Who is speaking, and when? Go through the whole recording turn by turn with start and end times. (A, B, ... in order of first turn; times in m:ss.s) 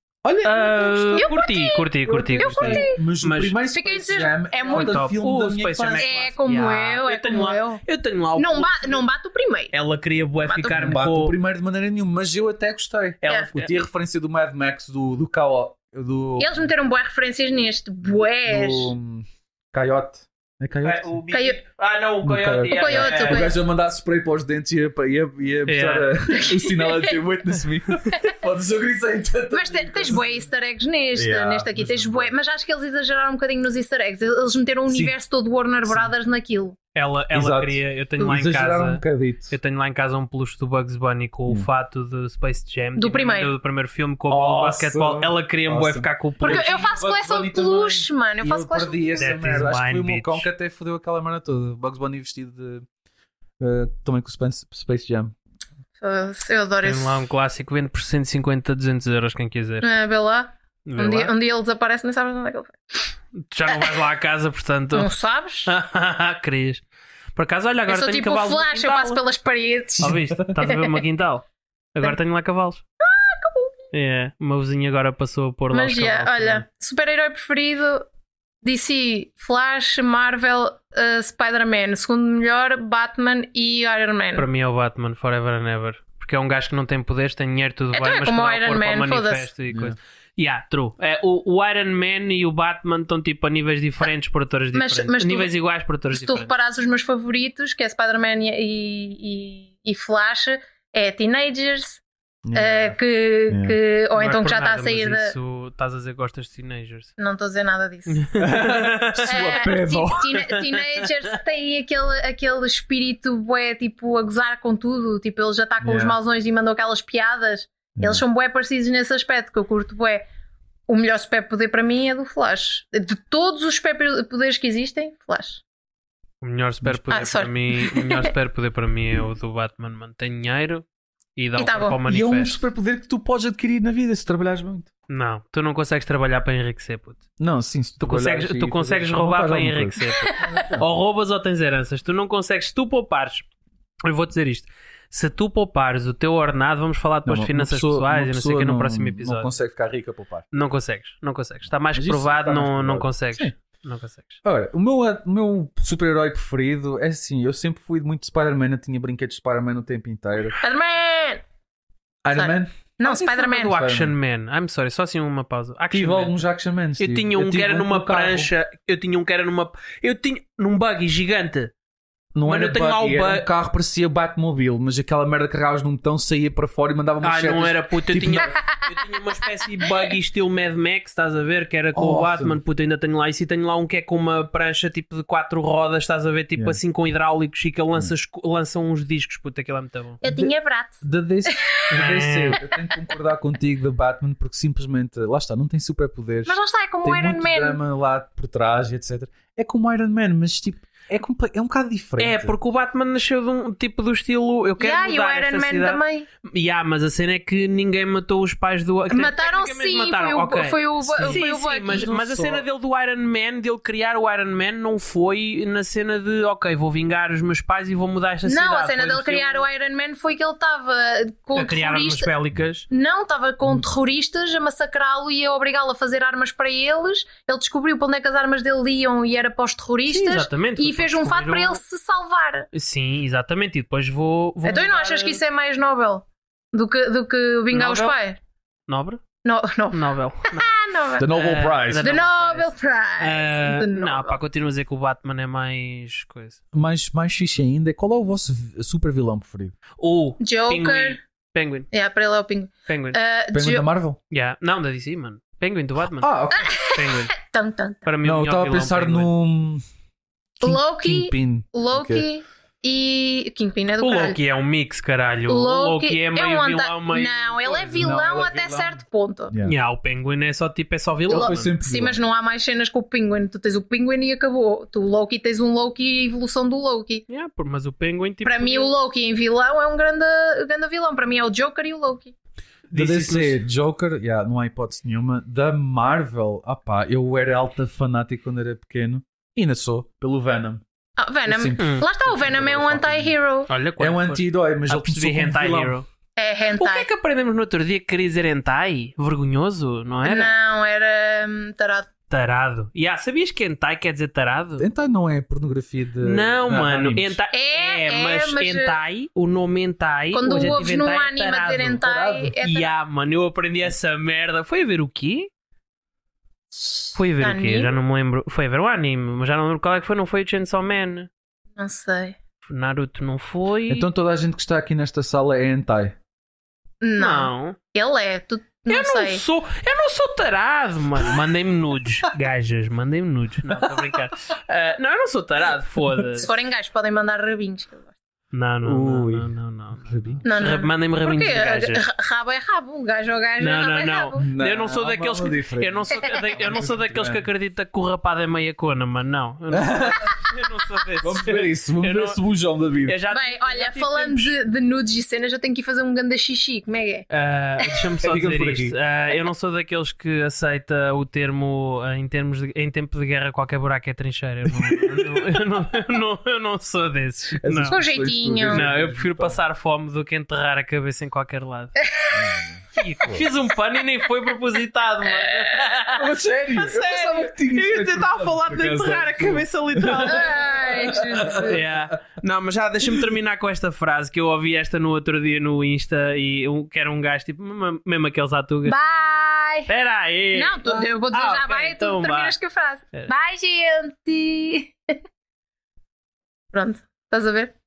0:00.2-0:01.3 A
0:00.4-0:03.6 B
0:01.1-0:03.0 C
0:02.0-0:06.1 A
0:03.7-0:05.1 C
0:04.7-0:09.0 B
0:06.0-0:07.8 C
0:08.4-0:09.7 C
0:09.7-0:11.4 B
0:10.4-0:10.8 C
0:10.7-0:16.6 A
0:13.2-0:13.8 B
0:16.4-0:18.9 C
0:18.5-0:21.2 A
0:20.8-0:23.5 B
0:21.3-0:21.6 C
0:22.2-0:30.4 A
0:22.7-0:23.6 C
0:25.7-0:26.1 B
0:26.3-0:27.1 C
0:29.5-0:36.8 C
0:31.2-0:32.3 A
0:34.9-0:35.1 A
0:37.0-0:46.8 B
0:37.3-0:39.6 A
0:43.0-0:43.5 C
0:44.3-0:52.8 A
0:46.4-0:49.4 C
0:49.2-0:50.5 B
0:53.6-0:55.3 A
0:56.0-0:57.2 C
0:56.8-0:59.9 B
0:59.8-1:03.1 C
1:00.8-1:01.3 B
1:03.4-1:05.1 B
1:03.7-1:04.0 C
1:04.9-1:05.7 C
1:05.7-1:06.8 B
1:07.4-1:09.2 B
1:07.9-1:10.9 C
1:10.0-1:10.5 A
1:10.0-1:12.8 B
1:13.0-1:13.8 C
1:13.9-1:16.6 B
1:15.7-1:18.1 C
1:18.6-1:24.5 C
1:24.4-1:36.5 B
1:27.9-1:29.5 C
1:29.7-1:30.0 A
1:34.8-1:35.5 C
1:36.1-1:45.3 C
1:42.4-1:42.8 A
1:43.5-1:43.8 A
1:44.2-1:47.1 B
1:47.2-1:48.3 C
1:48.1-1:49.7 B
1:48.4-1:50.3 A
1:49.3-2:00.2 C
1:50.3-1:51.1 B
1:55.8-1:56.2 A
1:58.0-1:58.2 A
2:00.9-2:05.6 C
2:06.4-2:10.8 B
2:07.1-2:08.3 C
2:11.4-2:12.6 B
2:11.6-2:12.0 C
2:12.1-2:14.9 A
2:15.1-2:17.2 B
2:17.4-2:20.9 A
2:18.0-2:23.5 B
2:20.2-2:20.7 C
2:24.0-2:29.5 B
2:27.3-2:30.5 A
2:30.5-2:34.4 B
2:31.9-2:33.5 A
2:34.4-2:40.6 A
2:40.6-2:41.4 C
2:42.2-2:42.8 A
2:42.3-2:43.8 C
2:43.0-2:46.4 B
2:43.6-2:44.1 A
2:45.9-2:48.5 A
2:47.0-2:51.7 B
2:52.4-2:58.5 A
2:52.5-2:53.5 B
2:57.2-3:10.2 B
2:58.4-2:58.9 C
3:02.0-3:02.6 A
3:10.2-3:11.9 C
3:10.2-3:22.6 A
3:11.9-3:12.6 B
3:16.5-3:17.8 C
3:22.2-3:39.7 B
3:24.8-3:26.3 C
3:29.1-3:32.1 C
3:31.0-3:32.7 A
3:38.5-3:42.3 C
3:41.6-3:42.9 B
3:42.9-3:52.7 C
3:50.1-3:51.8 B
3:52.7-3:55.4 B
3:54.6-3:58.4 C
3:57.7-3:58.2 B
3:58.9-3:59.2 B
3:59.4-4:01.3 C
3:59.9-4:06.6 B
4:01.2-4:02.1 A
4:02.0-4:04.4 C
4:06.7-4:09.8 A
4:10.0-4:11.9 B
4:10.4-4:11.2 C
4:11.9-4:13.9 C
4:12.9-4:13.2 B
4:13.5-4:14.2 A
4:14.3-4:17.4 B
4:16.2-4:16.7 A
4:16.5-4:18.1 C
4:18.1-4:19.3 B
4:18.2-4:19.8 A
4:20.6-4:22.2 A
4:20.6-4:24.4 C
4:24.0-4:28.2 B
4:25.5-4:29.5 C
4:28.0-4:29.0 A
4:29.5-4:29.8 A
4:29.6-4:31.7 B
4:31.3-4:32.2 A
4:31.3-4:37.2 C
4:37.3-4:38.9 B
4:38.4-4:42.4 C
4:42.9-4:43.6 B
4:42.9-4:50.8 A
4:51.2-4:53.7 C
4:51.5-4:53.4 A
4:51.8-4:52.1 B
4:53.7-4:56.1 B
4:54.0-4:56.0 A
4:56.4-4:57.1 C
4:56.8-5:00.6 B
5:00.2-5:02.1 C
5:02.3-5:04.9 B
5:04.8-5:07.4 A
5:06.2-5:12.0 B
5:07.5-5:09.0 C
5:10.3-5:12.9 C
5:12.0-5:12.5 A
5:12.6-5:15.5 B
5:16.7-5:18.0 C
5:17.2-5:21.3 B
5:21.8-5:22.4 C
5:22.7-5:24.1 B
5:23.9-5:26.2 A
5:27.0-5:29.4 C
5:27.2-5:27.8 B
5:28.9-5:36.5 B
5:33.7-5:34.0 A
5:36.4-5:38.1 C
5:38.5-5:42.0 B
5:38.8-5:39.5 A
5:40.1-5:40.4 A
5:40.4-5:44.4 C
5:43.6-5:52.4 B
5:44.4-5:47.4 A
5:46.1-5:46.4 C
5:49.7-5:50.4 A
5:51.2-5:53.2 A
5:53.0-5:54.5 B
5:53.3-5:57.3 C
5:57.3-6:08.0 B
5:58.2-5:59.0 A
6:04.6-6:05.5 A
6:07.6-6:09.6 A
6:07.9-6:08.8 C
6:08.7-6:12.0 B
6:12.0-6:12.6 C
6:12.3-6:13.5 A
6:13.0-6:29.0 B
6:15.4-6:15.8 C
6:16.1-6:22.1 A
6:20.3-6:21.8 C
6:28.9-6:29.9 C
6:29.9-6:32.6 B
6:30.5-6:35.2 C
6:36.7-6:37.7 C